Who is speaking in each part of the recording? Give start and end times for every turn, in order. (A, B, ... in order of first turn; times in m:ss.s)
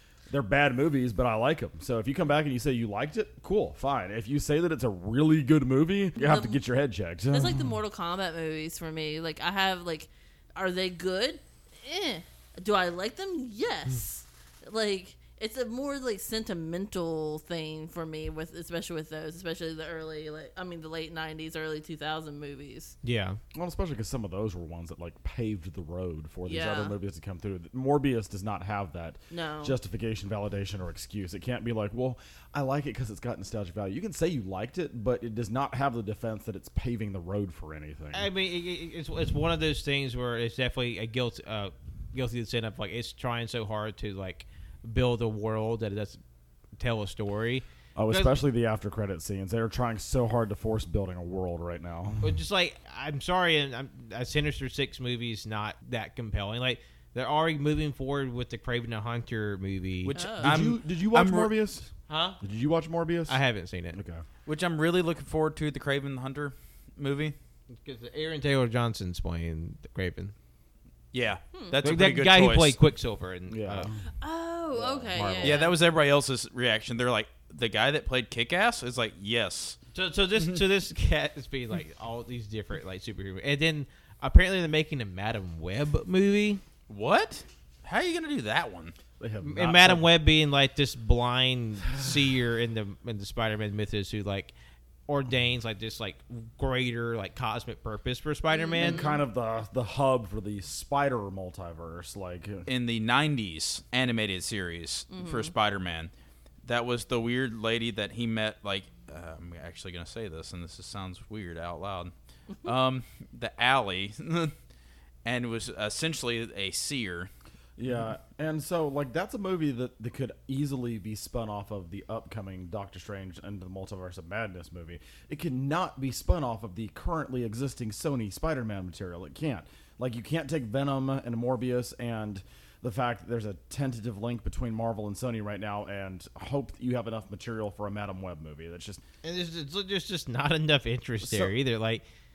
0:00.3-0:07.7 A
0:06.2-0:06.6 B
0:07.3-0:23.0 B
0:23.0-0:23.4 C
0:23.5-0:38.3 A
0:26.4-0:27.0 B
0:29.3-0:29.8 B
0:38.1-0:46.2 C
0:46.8-0:48.3 C
0:48.0-0:52.4 A
0:52.2-1:00.2 C
1:00.0-1:01.5 D
1:00.1-1:00.6 B
1:00.4-1:03.4 A
1:02.1-1:02.4 C
1:03.3-1:04.0 C
1:03.9-1:04.2 A
1:04.5-1:07.4 D
1:07.7-1:10.3 C
1:11.1-1:12.8 D
1:11.8-1:13.9 C
1:13.5-1:14.0 A
1:14.2-1:15.8 B
1:14.8-1:15.2 A
1:15.1-1:15.7 C
1:15.4-1:19.8 D
1:19.9-1:26.6 C
1:26.9-1:29.0 D
1:29.2-1:30.1 A
1:29.4-1:34.5 C
1:35.1-1:39.0 C
1:38.5-1:39.2 B
1:38.8-1:42.7 A
1:42.7-1:46.1 D
1:45.1-1:45.5 B
1:46.6-1:52.1 D
1:52.6-1:54.6 D
1:55.2-1:57.3 D
1:57.8-2:19.0 A
2:19.2-2:22.0 C
2:21.2-2:21.5 A